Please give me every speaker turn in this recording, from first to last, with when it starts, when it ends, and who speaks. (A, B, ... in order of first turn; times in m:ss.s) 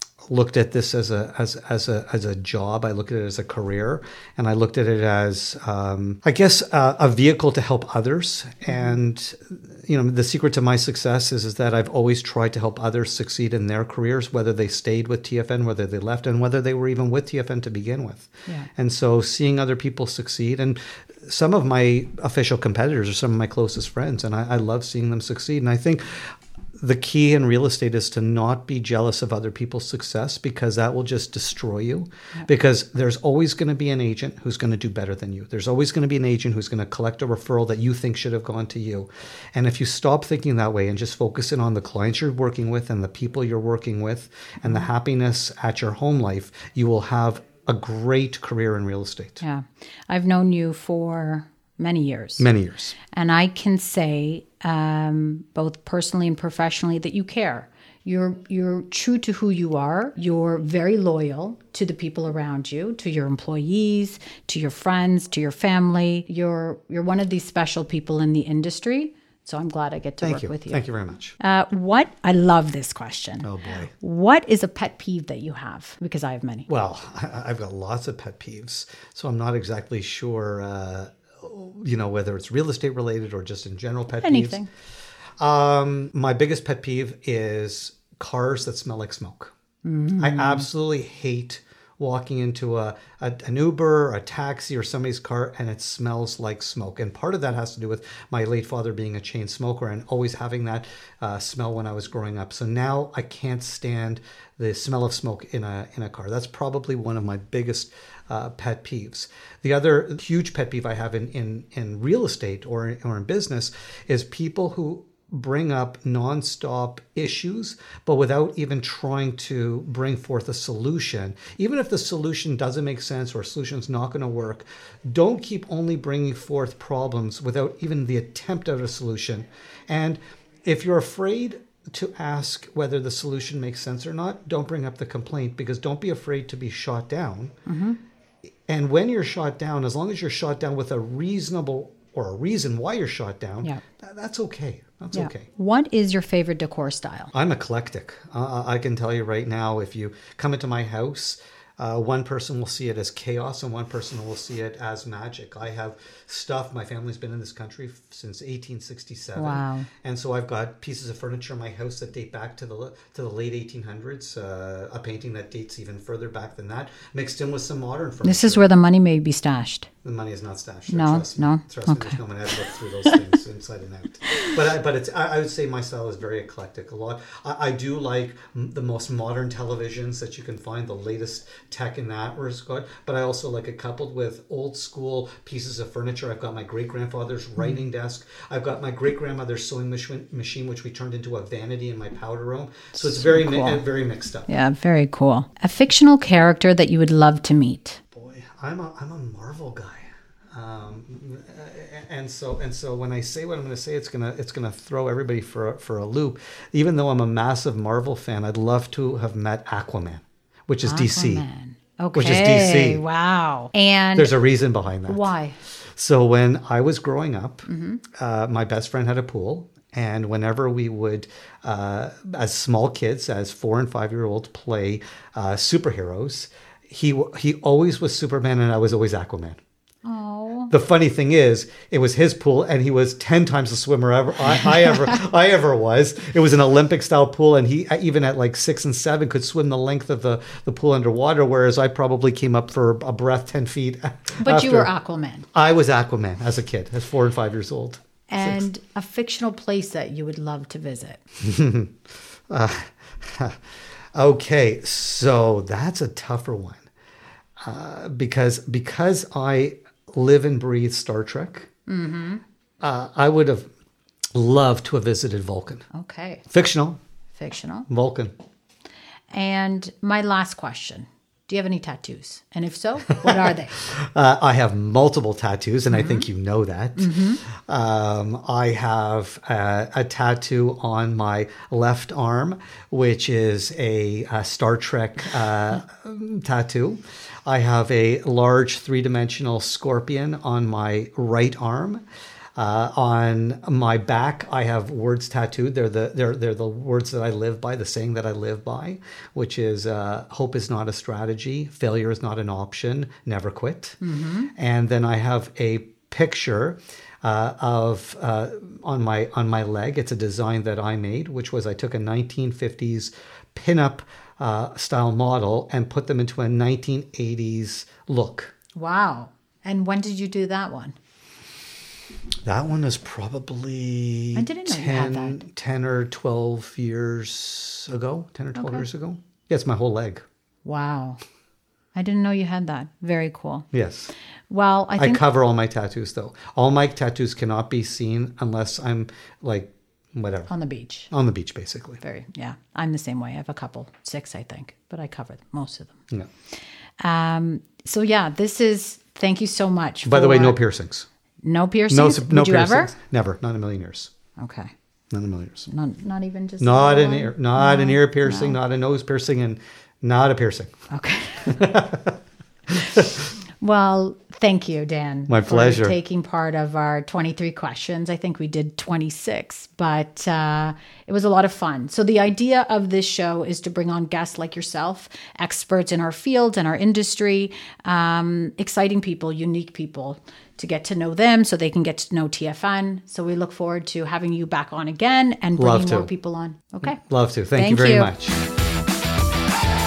0:00.3-0:49.4 A
0:49.4-0:52.5 B
0:52.4-0:52.9 A
0:53.1-1:10.8 B
1:10.2-1:11.4 A
1:11.4-1:16.7 B
1:13.4-1:13.9 A
1:16.7-1:24.6 A
1:24.1-1:24.7 B
1:25.4-1:29.5 A
1:29.8-1:30.7 B
1:30.2-2:17.5 A
2:17.6-2:18.0 B
2:18.7-2:25.4 A
2:25.1-2:27.3 B
2:27.3-2:48.6 A
2:39.4-2:39.9 B
2:48.2-2:49.9 B
2:50.0-3:14.5 A
2:50.9-2:53.2 B
3:12.9-3:13.8 B
3:14.5-3:18.0 B
3:18.1-3:31.4 A
3:30.8-3:34.3 B
3:32.1-3:33.0 A
3:34.2-3:35.3 A
3:35.1-3:35.6 B
3:35.9-3:49.6 A
3:37.7-3:38.0 B
3:50.0-3:50.7 B
3:50.7-4:04.9 A
3:54.7-3:55.1 B
4:04.4-4:05.4 B
4:05.5-4:08.6 A
4:08.3-4:11.2 B
4:11.4-4:11.9 A
4:12.5-4:13.6 A
4:14.2-4:16.9 A
4:17.6-4:21.7 A
4:21.9-4:22.4 B
4:22.8-4:23.7 A
4:24.3-4:25.8 A
4:25.9-4:26.5 B
4:26.5-4:27.0 A
4:27.3-4:27.9 B
4:27.9-4:28.3 A
4:29.3-4:33.8 B
4:33.2-4:52.0 A
4:35.9-4:36.3 B
4:37.0-4:37.4 B
4:52.6-5:04.0 A
5:04.0-5:04.5 B
5:04.5-5:18.5 A
5:18.8-5:20.9 B
5:22.4-5:30.2 A
5:24.3-5:25.4 B
5:28.5-5:28.8 B
5:30.6-5:31.2 B
5:31.9-5:33.7 B
5:33.7-5:34.1 A
5:34.5-5:35.2 B
5:35.0-5:40.5 A
5:40.5-5:41.1 B
5:41.1-5:42.0 A
5:42.0-5:46.0 B
5:47.0-5:50.6 B
5:50.0-5:51.1 A
5:51.4-5:52.9 B
5:51.9-5:54.1 A
5:54.4-5:54.7 B
5:55.1-5:55.7 A
5:55.7-5:58.6 B
5:56.6-6:00.7 A
6:00.9-6:01.6 B
6:01.4-6:02.2 A
6:02.7-6:03.1 A
6:03.6-6:27.0 B
6:05.3-6:06.0 A
6:25.6-6:26.1 A
6:26.8-6:28.4 A
6:27.5-6:28.1 B